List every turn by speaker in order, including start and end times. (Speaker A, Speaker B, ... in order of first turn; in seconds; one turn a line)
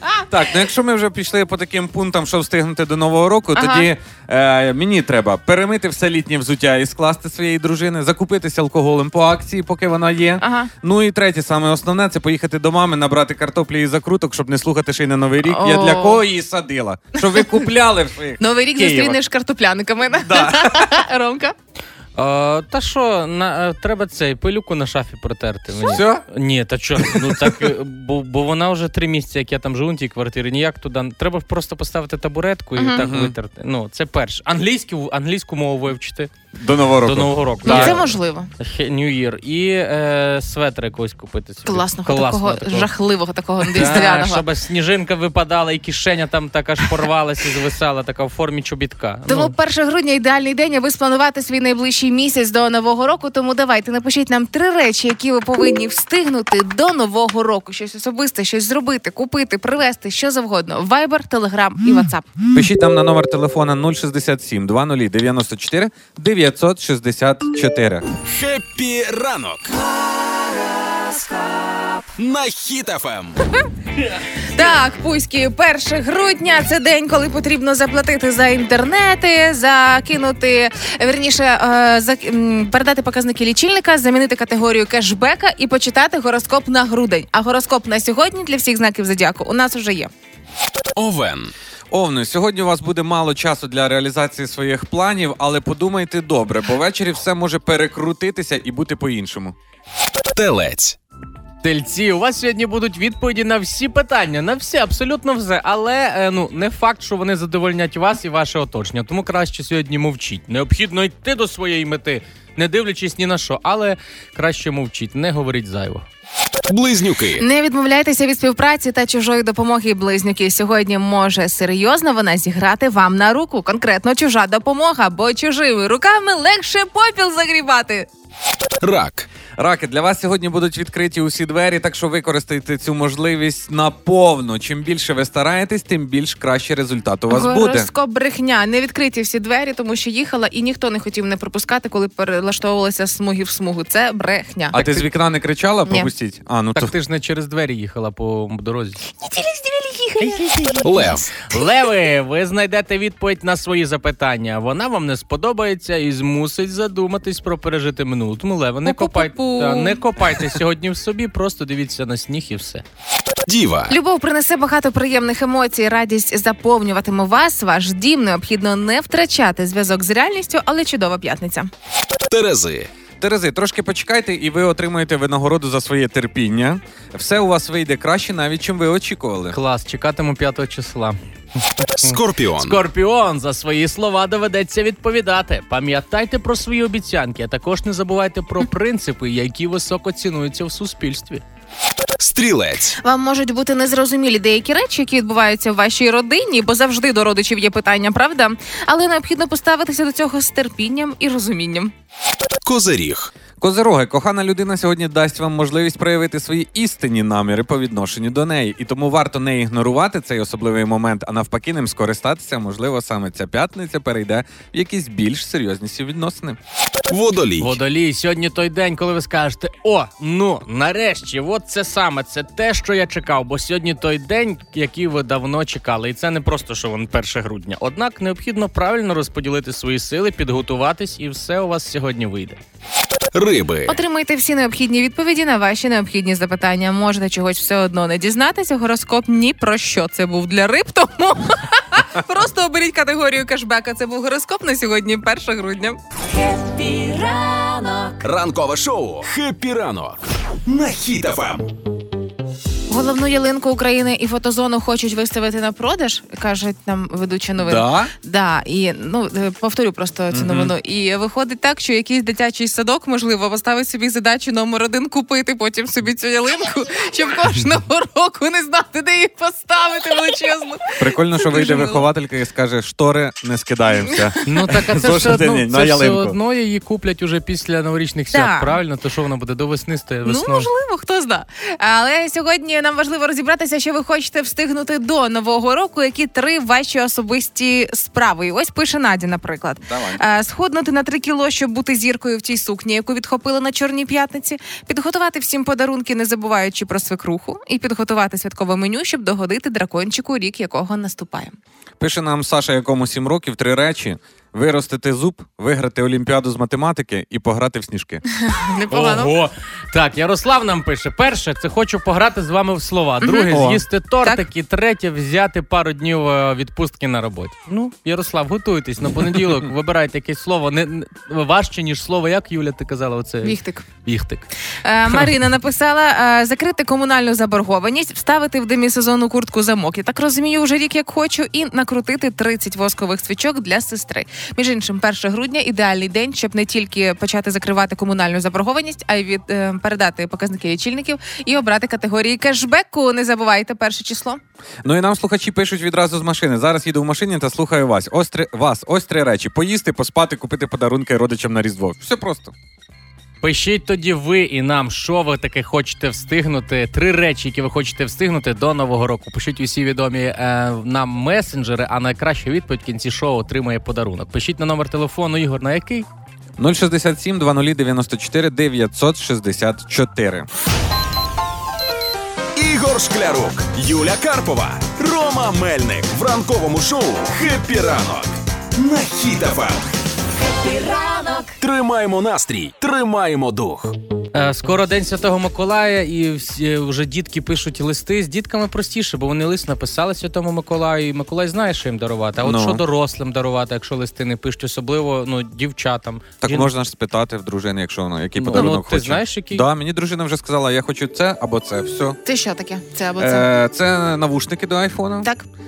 Speaker A: 0.3-19.2
Speaker B: 3.5-3.9
Speaker B: 10.4-10.7
Speaker B: 15.4-16.2
Speaker B: 18.4-21.5
Speaker A: 20.2-21.0
Speaker C: 22.2-36.3
Speaker A: 25.8-26.2
Speaker A: 27.0-27.7
Speaker B: 32.8-33.0
Speaker A: 33.0-33.3
Speaker A: 36.5-38.0
Speaker C: 37.0-42.9
Speaker B: 37.6-38.5
Speaker B: 41.6-44.4
Speaker C: 43.6-49.5
Speaker B: 49.3-62.4
Speaker A: 62.5-68.0
Speaker D: 68.2-69.8
Speaker E: 71.1-71.8
Speaker D: 72.2-73.4
Speaker B: 74.5-90.1
Speaker D: 91.0-91.5
Speaker A: 91.9-99.5
Speaker D: 100.3-101.0
Speaker C: 101.6-116.0
Speaker D: 116.7-117.4
Speaker B: 117.4-128.1
Speaker D: 128.8-129.3
Speaker A: 129.6-137.9
Speaker B: 137.3-144.9
Speaker A: 144.7-146.9
Speaker C: 146.8-149.0
Speaker B: 149.1-151.1
Speaker C: 150.2-150.8
Speaker D: 150.8-151.3
Speaker C: 151.5-162.8
Speaker B: 158.8-160.0
Speaker D: 163.5-164.0
Speaker B: 163.9-171.7
Speaker D: 172.3-172.9
Speaker A: 173.2-179.6
Speaker C: 179.5-181.2
Speaker C: 181.8-191.4
Speaker D: 181.9-182.8
Speaker D: 192.2-193.0
Speaker B: 193.0-201.9
Speaker D: 202.6-203.3
Speaker A: 203.6-216.6
Speaker D: 217.1-217.8
Speaker C: 217.6-232.6
Speaker D: 233.3-234.0
Speaker B: 233.9-246.0
Speaker E: 246.3-248.2
Speaker D: 248.2-251.7
Speaker B: 252.9-272.0
Speaker A: 257.6-258.1
Speaker A: 260.3-260.7
Speaker A: 271.0-276.4
Speaker B: 274.1-274.4
Speaker C: 274.4-280.7
Speaker B: 278.3-278.8
Speaker B: 280.2-301.6
Speaker A: 289.9-290.2
Speaker A: 302.0-308.2
Speaker B: 308.4-309.3
Speaker C: 308.9-324.5
Speaker B: 313.2-313.6
Speaker A: 313.5-313.8
Speaker B: 323.4-323.9
Speaker B: 324.8-344.4
Speaker A: 344.8-352.5
Speaker C: 353.4-366.1
Speaker A: 366.6-370.5
Speaker D: 372.5-379.8
Speaker E: 380.4-381.5
Speaker D: 381.6-383.9
Speaker C: 384.3-396.7
Speaker A: 392.4-392.8
Speaker A: 396.4-402.2
Speaker C: 398.4-399.6
Speaker B: 402.2-403.5
Speaker A: 403.2-405.3